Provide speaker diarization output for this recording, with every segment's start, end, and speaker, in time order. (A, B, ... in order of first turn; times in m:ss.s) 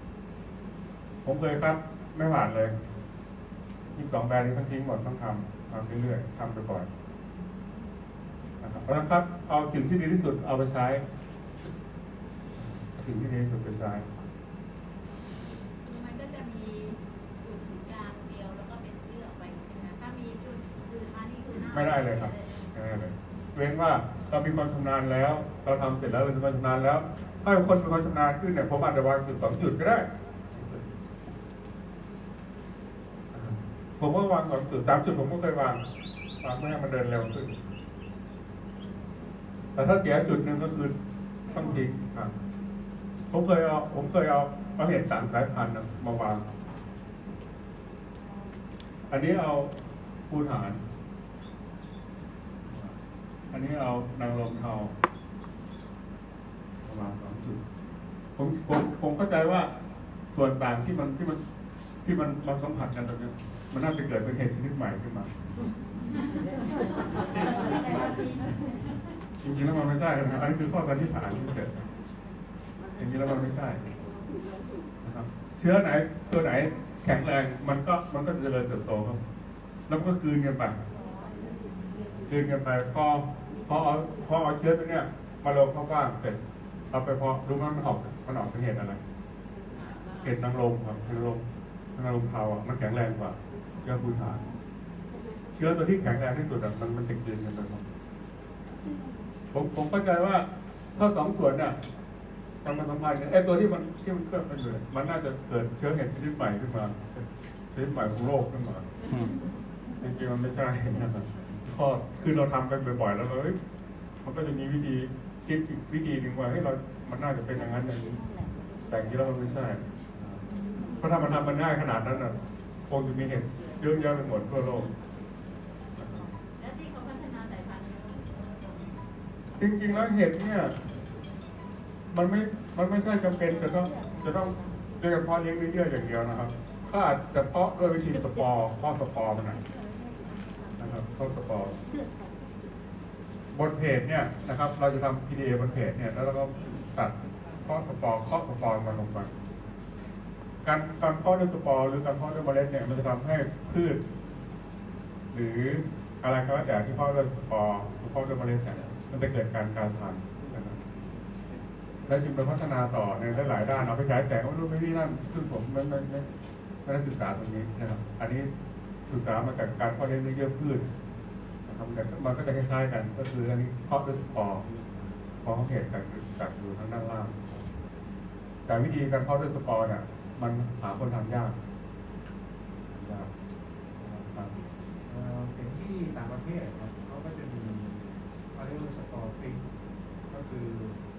0:01.2-0:02.7 A
0:03.9-0:06.9 A
0:08.6-0:11.0 A
0:12.6-0:14.0 A
0:15.8-0:22.7 B
0:21.7-0:30.8 A
0:33.3-0:35.8 A
0:36.4-0:37.6 A
0:39.8-0:40.9 A
0:41.5-0:42.3 A
0:43.3-0:46.4 A
0:49.1-0:49.7 A
0:50.3-0:50.8 A
0:52.7-0:53.0 A
0:53.5-0:54.9 A
0:56.8-0:57.6 A
0:58.4-0:59.7 A
1:00.3-1:01.4 A
1:02.0-1:05.3 A
1:06.9-1:08.7 B
1:09.4-1:11.8 A
1:13.0-1:13.8 A
1:15.0-1:19.2 A
1:19.9-1:20.8 A
1:20.9-1:21.5 B
1:22.2-1:26.4 A
1:26.9-1:29.0 A
1:29.7-1:30.3 B
1:30.2-1:31.4 A
1:31.9-1:34.4 A
1:35.6-1:37.8 A
1:39.5-1:41.8 A
1:42.6-1:47.0 A
1:47.7-1:49.2 A
1:50.0-1:53.6 A
1:54.2-1:58.2 A
1:58.9-2:00.4 A
2:01.0-2:04.9 A
2:06.0-2:06.3 A
2:06.6-2:09.0 B
2:09.6-2:10.7 A
2:12.1-2:19.6 A
2:20.8-2:21.8 A
2:23.5-2:29.3 A
2:30.6-2:34.0 A
2:35.3-2:40.8 A
2:42.1-2:46.3 A
2:46.8-2:48.5 A
2:49.1-2:50.8 A
2:51.6-2:54.6 A
2:55.4-2:57.4 A
2:58.6-3:01.6 A
3:02.9-3:03.3 A
3:04.1-3:04.6 A
3:05.0-3:09.6 C
3:10.3-3:11.0 C